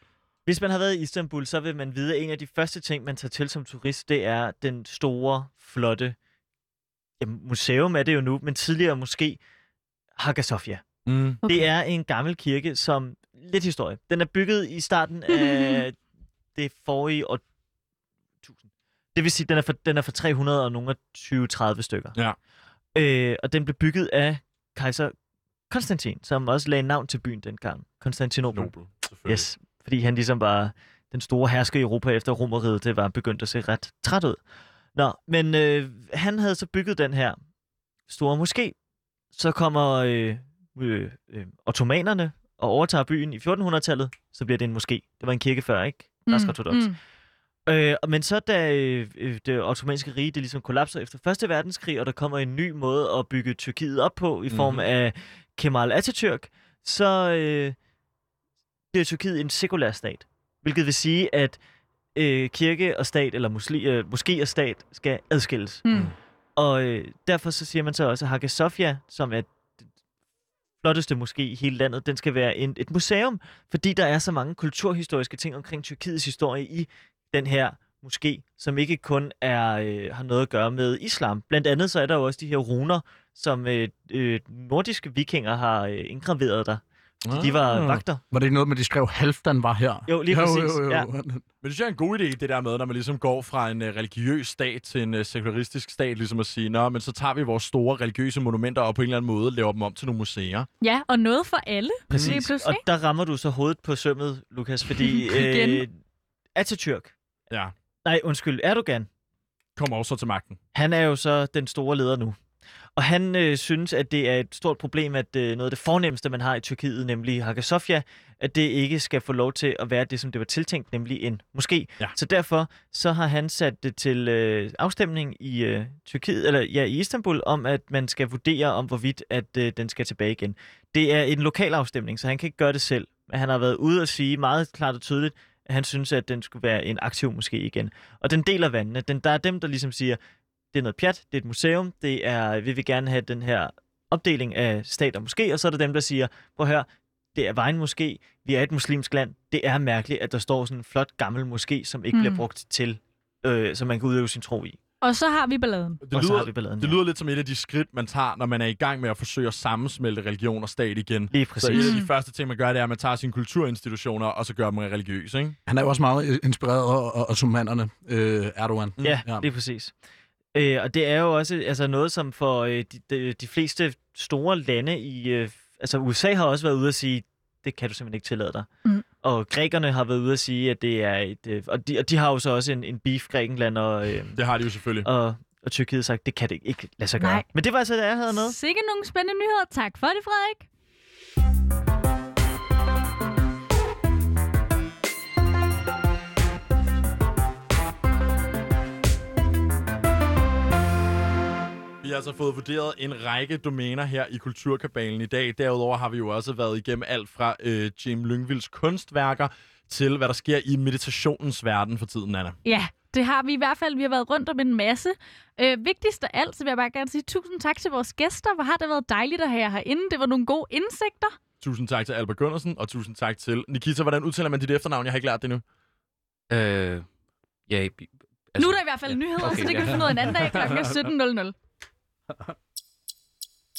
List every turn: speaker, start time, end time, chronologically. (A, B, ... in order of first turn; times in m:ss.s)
0:00.4-0:06.2 A
0:07.2-0:09.4 A
0:10.2-0:10.8 A
0:11.0-0:11.4 B
0:11.4-0:11.7 C
0:11.4-0:16.0 A
0:15.3-0:15.8 C
0:16.5-0:17.4 A
0:19.1-0:22.2 A
0:22.9-0:25.1 A
0:25.7-0:28.7 A
0:28.5-0:29.5 B
0:29.2-0:34.4 A
0:34.9-0:37.4 A
0:38.1-0:38.8 A
0:39.3-0:46.9 A
0:46.3-0:47.0 C
0:47.7-0:57.7 A
0:54.5-0:54.8 B
0:58.9-1:01.6 A
1:02.1-1:05.8 A
1:05.8-1:06.1 C
1:06.6-1:09.5 A
1:10.8-1:28.2 A
1:27.3-1:31.4 D
1:30.1-1:31.1 A
1:31.6-1:40.7 B
1:40.8-1:42.8 C
1:42.1-1:45.9 A
1:42.1-1:42.4 B
1:45.0-1:45.8 C
1:46.6-1:47.1 A
1:48.0-1:49.1 A
1:49.8-1:50.6 B
1:50.7-1:52.4 A
1:53.0-2:20.2 A
2:20.7-2:34.8 A
2:32.1-2:32.4 C
2:35.0-2:36.0 C
2:36.0-2:45.6 B
2:36.1-2:37.0 A
2:41.3-2:42.0 A
2:41.7-2:42.1 C
2:45.6-2:49.5 D
2:49.0-2:49.9 A
2:50.5-2:58.7 A
2:59.2-3:04.4 A
3:04.4-3:05.1 B
3:05.0-3:08.6 A
3:07.2-3:07.4 C
3:08.3-3:10.7 C
3:22.0-3:32.6 B
3:32.6-3:41.4 C
3:41.6-3:45.6 B
3:46.5-3:47.1 E
3:47.7-3:50.5 E
3:48.6-3:51.5 C
3:50.4-3:50.9 D